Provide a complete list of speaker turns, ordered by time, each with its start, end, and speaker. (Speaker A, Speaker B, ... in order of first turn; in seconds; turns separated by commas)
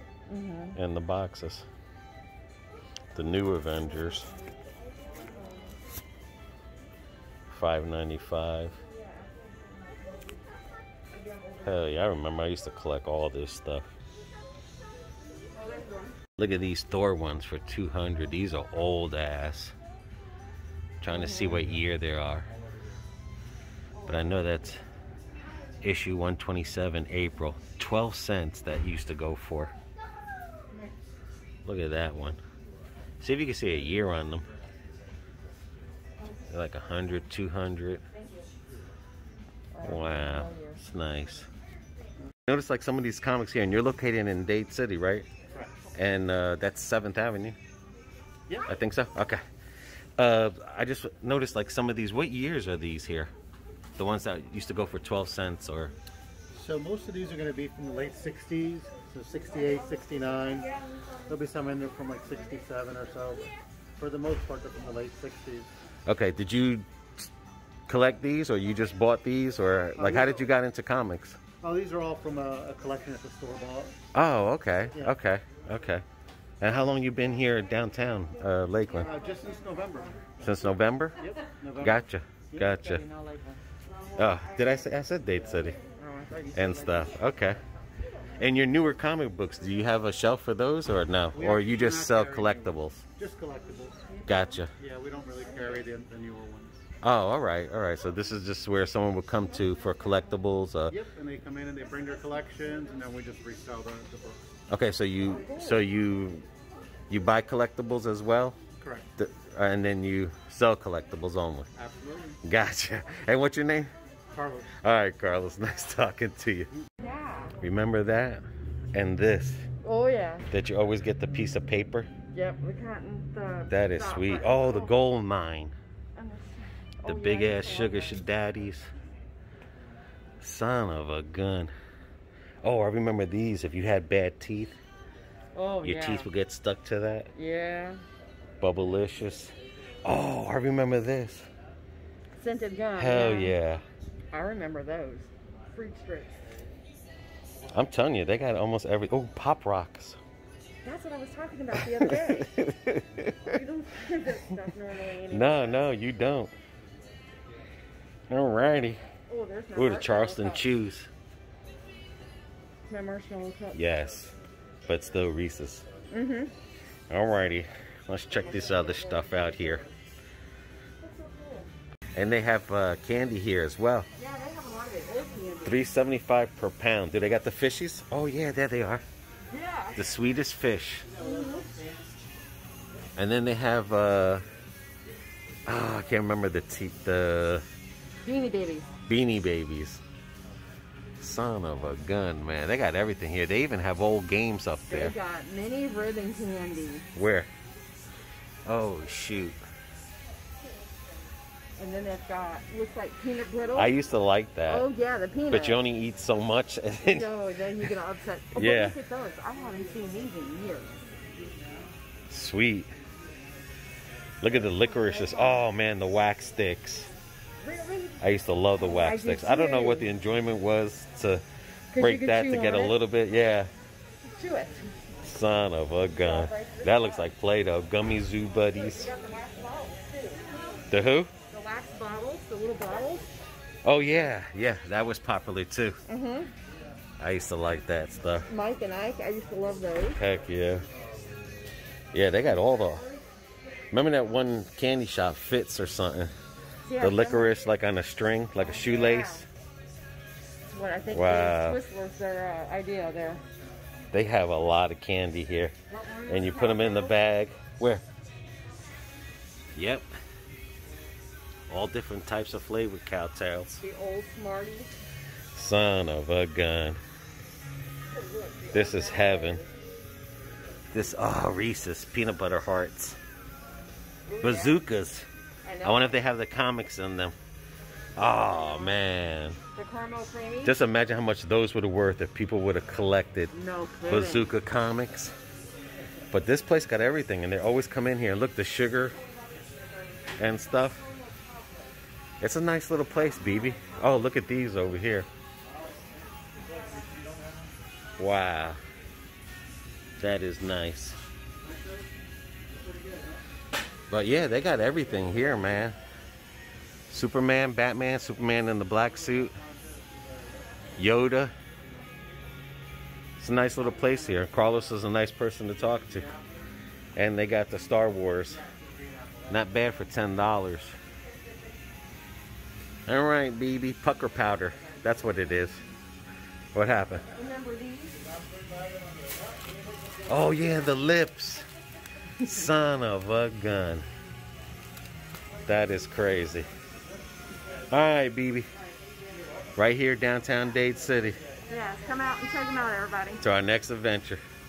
Speaker A: 0.3-0.8, Speaker B: 0.7-1.6, Speaker B: 3.1-4.3, Speaker B: 7.5-8.8, Speaker B: 11.6-13.8, Speaker B: 16.4-19.7, Speaker B: 21.0-22.5, Speaker A: 21.1-21.6, Speaker B: 24.1-24.8, Speaker B: 25.8-29.7, Speaker B: 31.6-32.4, Speaker B: 33.2-34.4, Speaker B: 36.5-38.0, Speaker A: 39.7-40.8, Speaker B: 39.8-41.5, Speaker B: 42.5-45.3, Speaker B: 45.9-47.6, Speaker B: 48.6-49.4, Speaker B: 50.2-53.3, Speaker B: 54.0-55.9, Speaker C: 56.5-60.7, Speaker C: 61.3-65.7, Speaker B: 66.0-66.8, Speaker B: 67.9-71.4, Speaker C: 70.0-70.4, Speaker C: 71.6-74.0, Speaker B: 74.1-76.0, Speaker B: 76.6-79.1, Speaker C: 79.0-80.2, Speaker B: 80.4-81.2, Speaker C: 81.2-82.0, Speaker B: 81.8-83.0, Speaker A: 82.6-83.6, Speaker B: 84.2-85.8, Speaker A: 86.0-87.1, Speaker B: 86.5-87.6, Speaker B: 88.4-93.0, Speaker C: 91.3-94.0, Speaker B: 94.2-94.7, Speaker C: 94.8-96.8, Speaker B: 97.0-101.0, Speaker C: 100.9-104.4, Speaker B: 104.7-106.4, Speaker A: 105.4-105.8, Speaker B: 107.1-108.6, Speaker C: 108.8-109.1, Speaker B: 109.2-111.7, Speaker C: 111.8-112.4, Speaker B: 112.4-113.9, Speaker C: 114.3-114.7, Speaker B: 114.8-116.7, Speaker A: 117.0-117.5, Speaker B: 117.6-118.4, Speaker B: 118.9-119.7, Speaker A: 119.8-120.5, Speaker B: 120.5-122.1, Speaker A: 122.3-125.0, Speaker B: 123.7-125.7, Speaker A: 126.2-128.2, Speaker B: 127.0-128.9, Speaker B: 130.4-131.7, Speaker B: 132.6-134.8, Speaker A: 135.5-136.3, Speaker B: 135.8-137.3, Speaker A: 137.3-138.0, Speaker B: 138.6-141.5, Speaker A: 142.3-143.6, Speaker B: 142.9-143.8, Speaker A: 144.3-146.4, Speaker B: 147.7-150.2, Speaker A: 150.8-152.5, Speaker B: 151.7-153.6, Speaker A: 153.4-155.9, Speaker B: 155.3-156.5, Speaker B: 158.3-159.0, Speaker A: 159.3-160.7, Speaker B: 159.7-161.1, Speaker A: 162.9-163.8, Speaker B: 163.7-164.3, Speaker B: 164.8-165.8, Speaker A: 166.1-166.5, Speaker B: 167.1-169.8, Speaker A: 168.5-169.5, Speaker A: 171.0-171.7, Speaker B: 172.1-174.1, Speaker A: 174.2-175.8, Speaker B: 175.6-179.0, Speaker A: 179.5-180.0, Speaker B: 179.9-181.1, Speaker A: 181.2-181.7, Speaker B: 183.2-184.4, Speaker B: 185.7-187.6, Speaker A: 188.2-188.9, Speaker B: 189.1-190.0, Speaker B: 191.2-195.2, Speaker A: 194.9-197.1, Speaker B: 197.1-197.5, Speaker B: 198.7-199.6, Speaker A: 201.8-204.0, Speaker B: 203.7-204.9, Speaker A: 204.7-205.8, Speaker B: 205.5-207.9, Speaker A: 207.0-211.0, Speaker B: 208.5-208.9, Speaker B: 212.3-212.9, Speaker B: 214.4-217.1, Speaker A: 214.9-215.6, Speaker A: 217.6-218.2, Speaker B: 218.2-221.4, Speaker A: 218.8-220.1, Speaker A: 221.9-222.9, Speaker B: 222.0-223.7, Speaker A: 224.2-224.9, Speaker B: 225.2-229.1, Speaker A: 226.1-227.3, Speaker A: 228.7-230.5, Speaker B: 230.9-231.3, Speaker A: 231.5-233.3, Speaker B: 233.8-236.0, Speaker A: 236.1-236.5, Speaker B: 237.2-238.5, Speaker A: 238.5-240.2, Speaker B: 240.1-240.8, Speaker B: 242.1-243.1, Speaker A: 242.5-243.2, Speaker B: 243.9-246.3, Speaker A: 246.8-247.5, Speaker B: 247.0-249.4, Speaker A: 248.6-249.4, Speaker A: 250.6-253.4, Speaker B: 251.1-251.8, Speaker B: 254.1-255.7, Speaker A: 255.9-257.1, Speaker B: 256.3-258.0, Speaker B: 259.7-260.1, Speaker B: 261.7-263.8, Speaker A: 263.8-264.9, Speaker B: 265.5-267.0, Speaker A: 268.1-269.7, Speaker B: 268.7-269.6, Speaker B: 270.9-273.2, Speaker A: 274.3-274.8, Speaker B: 274.4-275.3, Speaker A: 275.6-276.2, Speaker B: 275.8-277.4, Speaker B: 278.1-279.6, Speaker A: 279.7-280.8, Speaker B: 280.6-283.5, Speaker A: 283.5-284.5, Speaker B: 284.1-285.3, Speaker B: 286.3-289.2, Speaker B: 290.4-291.0, Speaker B: 292.4-295.3, Speaker B: 298.2-298.8, Speaker B: 300.2-301.2, Speaker B: 304.1-306.0, Speaker B: 307.1-309.5, Speaker B: 311.0-311.5, Speaker B: 313.4-316.3, Speaker B: 317.1-318.6, Speaker B: 319.5-321.0, Speaker B: 323.1-325.8, Speaker B: 326.7-327.2, Speaker A: 327.3-328.2, Speaker B: 330.2-331.6, Speaker B: 332.4-334.0, Speaker B: 335.6-336.7, Speaker B: 337.9-338.7, Speaker B: 339.8-341.4, Speaker A: 341.7-343.4, Speaker B: 343.4-344.4